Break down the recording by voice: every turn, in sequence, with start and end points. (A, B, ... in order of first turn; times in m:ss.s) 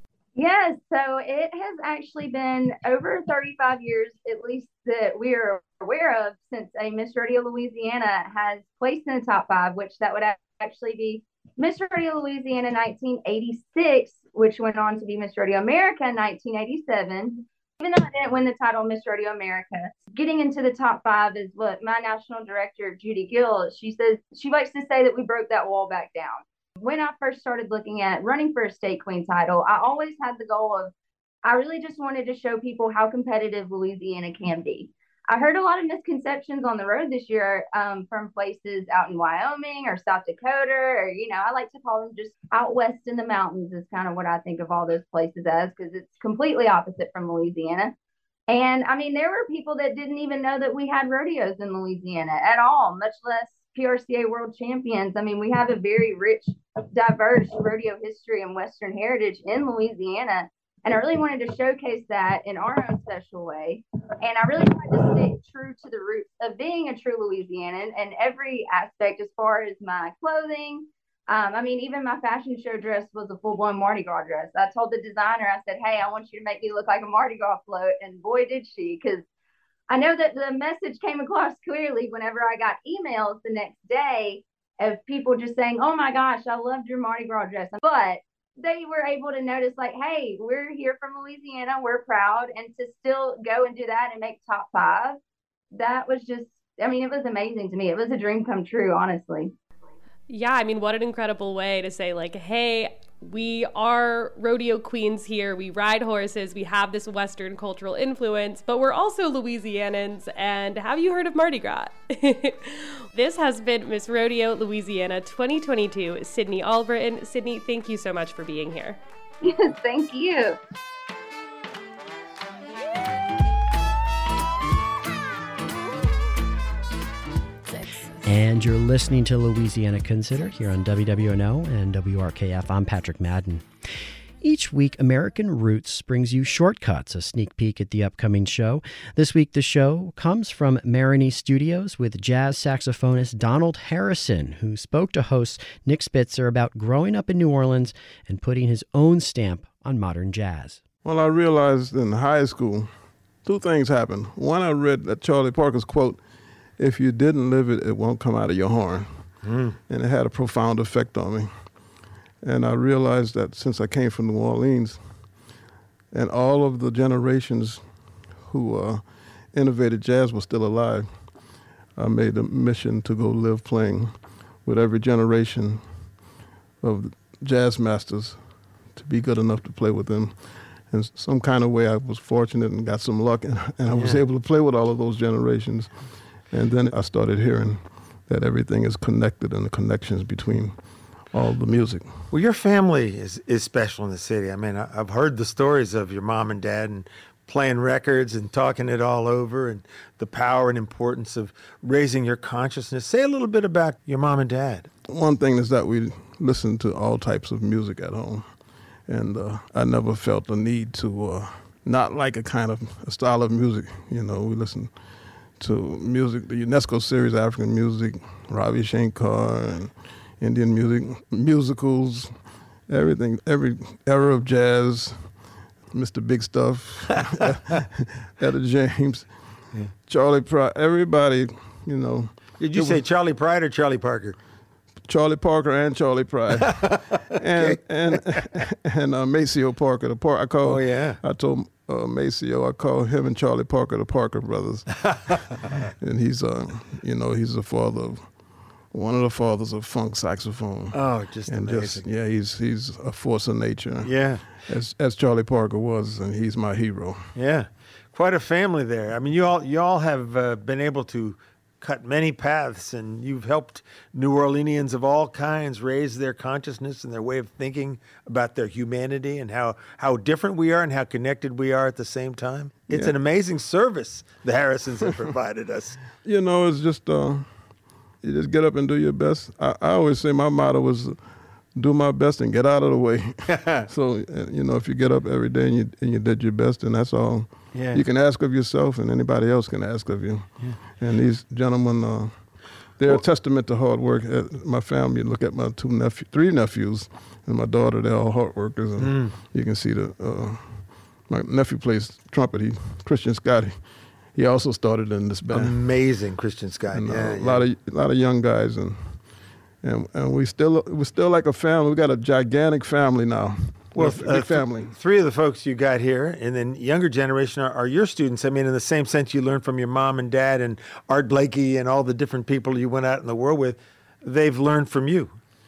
0:00.4-0:30.9 A
0:31.4-0:47.9 A
0:48.5-1:19.2 A
1:19.9-1:35.2 A
1:35.7-1:39.5 A
1:40.3-1:59.0 B
1:59.4-2:00.6 A
2:08.2-2:13.6 C
2:14.4-2:30.8 C
2:31.0-2:32.9 D
2:33.4-2:36.2 D
2:36.8-2:39.4 D
2:39.4-2:39.8 E
2:39.9-2:41.8 D
2:42.4-2:45.3 D
2:46.1-2:51.3 D
2:52.0-2:56.1 D
2:56.8-3:12.2 D
3:03.9-3:04.2 E
3:12.3-3:24.9 E
3:25.0-3:35.0 D
3:35.6-3:53.0 D
3:52.6-3:54.4 E
3:55.0-4:05.2 D
3:56.5-3:58.5 E
4:00.6-4:01.2 E
4:04.9-4:05.8 E
4:06.0-4:17.3 D
4:10.9-4:12.1 E
4:14.0-4:14.5 E
4:17.3-4:36.0 E
4:32.9-4:33.1 D
4:36.2-4:41.2 D
4:41.7-5:06.0 D
4:43.5-4:43.9 E
4:47.7-4:48.0 E
4:59.0-4:59.4 E
5:05.5-5:07.6 E
5:06.9-5:09.3 D
5:09.8-5:14.9 D
5:13.9-5:25.3 E